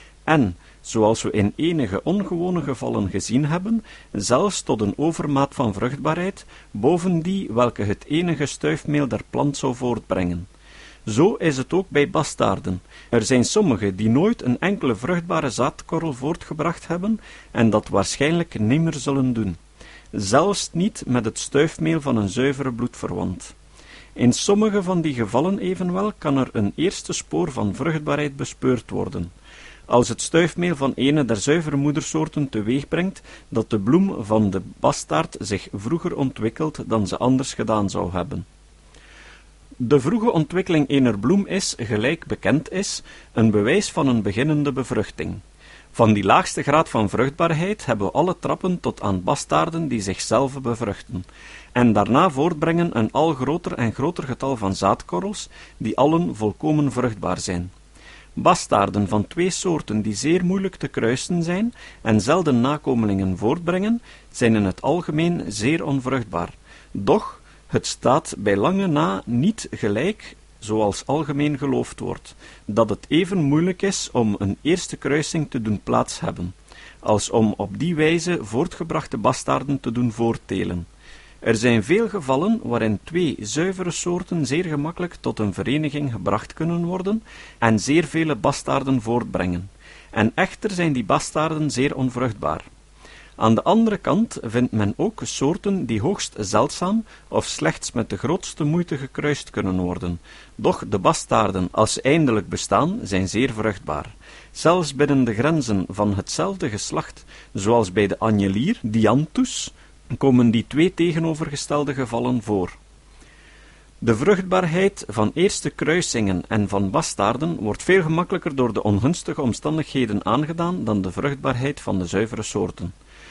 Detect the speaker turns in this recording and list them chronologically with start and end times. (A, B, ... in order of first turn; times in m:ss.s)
0:00.2-0:10.5 A
0:11.0-0:19.6 A
0:20.1-0:23.5 A
0:24.2-0:29.3 A
0:29.9-0:38.4 A
0:39.8-0:45.4 A
0:45.9-0:57.7 A
0:58.4-1:20.9 A
1:21.4-1:32.7 A
1:33.4-1:52.8 A
1:54.0-2:02.9 A